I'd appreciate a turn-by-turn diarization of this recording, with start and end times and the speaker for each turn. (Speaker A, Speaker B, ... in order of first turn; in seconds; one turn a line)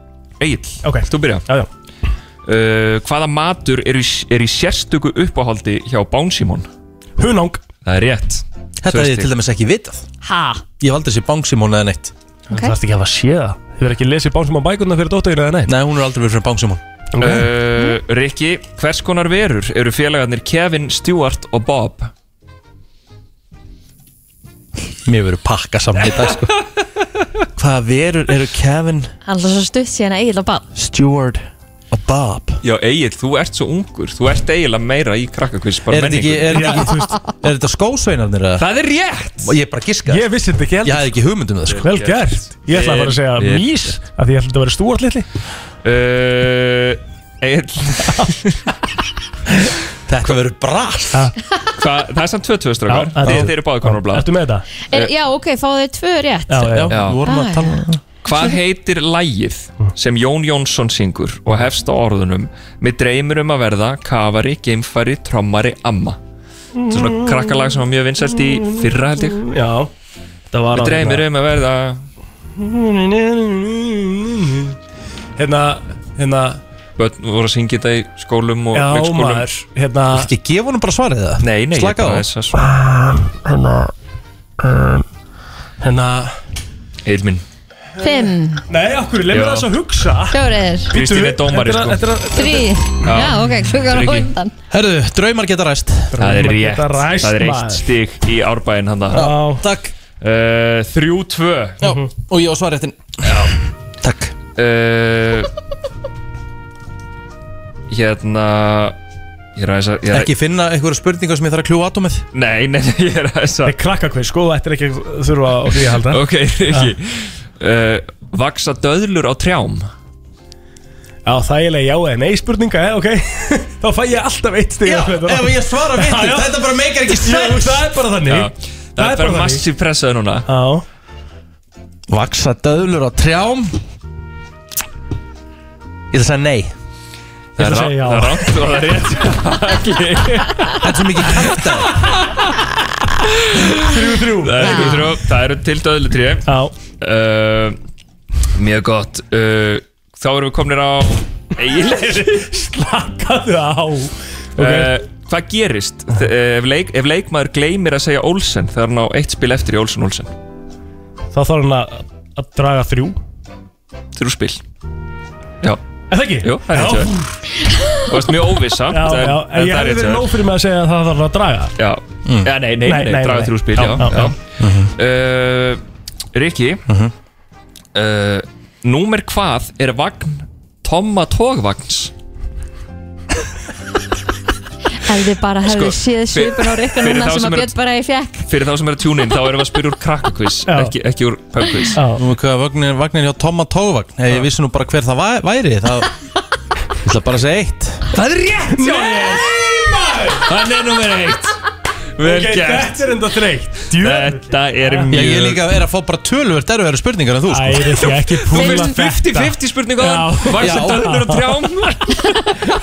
Speaker A: 0.4-1.4
Speaker B: 0.8-1.7
Speaker A: 2.5-6.7
Speaker B: 7.2-7.6
Speaker A: 7.8-9.3
Speaker C: 8.8-10.0
Speaker D: 10.2-10.6
Speaker C: 10.8-12.1
Speaker B: 12.5-15.7
Speaker C: 15.7-16.8
Speaker B: 17.1-17.5
Speaker A: 17.2-22.1
Speaker C: 25.0-26.6
Speaker C: 27.6-29.1
Speaker D: 29.2-30.6
Speaker C: 30.7-32.6
Speaker A: 32.6-36.6
Speaker C: 35.9-38.6
Speaker B: 36.5-37.1
Speaker A: 38.6-39.5
Speaker C: 39.4-40.2
Speaker B: 40.1-41.1
Speaker C: 40.8-41.9
Speaker A: 41.7-43.9
Speaker B: 41.7-45.3
Speaker A: 45.8-48.6
Speaker C: 50.1-51.3
Speaker A: 51.8-54.3
Speaker B: 52.9-54.7
Speaker C: 53.2-53.5
Speaker D: 54.9-57.8
Speaker B: 56.5-56.9
Speaker C: 56.7-58.0
Speaker A: 56.9-57.2
Speaker A: 58.2-66.2
Speaker B: 66.7-67.8
Speaker A: 66.9-69.4
Speaker B: 68.3-69.9
Speaker B: 70.5-71.2
Speaker A: 70.7-72.0
Speaker B: 72.6-74.8
Speaker B: 75.4-76.6
Speaker A: 77.0-79.5
Speaker B: 78.7-80.3
Speaker C: 80.1-82.3
Speaker A: 81.4-82.7
Speaker B: 82.5-83.9
Speaker B: 84.6-85.0
Speaker B: 85.8-86.4
Speaker A: 87.0-87.4
Speaker D: 88.0-88.6
Speaker B: 88.7-92.8
Speaker A: 89.3-89.7
Speaker D: 90.3-90.9
Speaker A: 90.9-92.1
Speaker D: 92.3-94.5
Speaker A: 93.0-94.3
Speaker C: 94.7-96.2
Speaker B: 96.1-97.9
Speaker A: 96.2-99.3
Speaker B: 99.1-99.6
Speaker C: 99.1-99.9
Speaker A: 100.2-101.8
Speaker C: 101.8-103.5
Speaker B: 101.8-102.1
Speaker A: 103.2-103.5
Speaker C: 104.0-104.3
Speaker A: 104.5-105.5
Speaker A: 107.9-109.0
Speaker A: 109.5-110.3
Speaker C: 110.1-112.2
Speaker A: 112.3-113.8
Speaker B: 113.6-116.9
Speaker A: 116.0-119.9
Speaker B: 121.2-129.7
Speaker C: 124.8-127.9
Speaker A: 128.2-130.4
Speaker B: 130.5-130.8
Speaker C: 132.1-133.8
Speaker C: 136.1-136.7
Speaker B: 137.6-138.6
Speaker A: 137.6-140.8
Speaker C: 140.8-142.0
Speaker A: 142.1-142.5
Speaker A: 143.2-147.8
Speaker B: 143.8-145.1
Speaker D: 144.6-145.0
Speaker B: 146.4-146.7
Speaker A: 148.5-152.4
Speaker B: 151.7-154.9
Speaker A: 154.6-160.3
Speaker B: 161.3-163.2
Speaker A: 164.1-164.6
Speaker B: 166.1-167.4
Speaker A: 166.4-167.1
Speaker A: 168.1-170.3
Speaker B: 168.9-171.7
Speaker A: 171.8-174.4
Speaker C: 172.2-172.5
Speaker B: 172.8-174.3
Speaker C: 174.6-174.9
Speaker A: 175.0-175.8
Speaker A: 176.3-176.8
Speaker C: 176.9-177.1
Speaker A: 177.9-182.1
Speaker D: 185.0-188.5
Speaker A: 185.7-187.7
Speaker A: 188.5-192.0
Speaker B: 190.7-190.9
Speaker B: 191.9-192.2
Speaker C: 192.1-196.1
Speaker C: 197.0-198.1
Speaker A: 198.1-199.6
Speaker B: 198.7-200.5
Speaker A: 200.4-201.6
Speaker A: 202.2-203.2
Speaker B: 202.2-205.2
Speaker A: 203.9-205.6
Speaker C: 205.1-208.0
Speaker B: 207.5-212.2
Speaker A: 208.5-212.2
Speaker D: 208.5-209.0
Speaker C: 210.6-211.2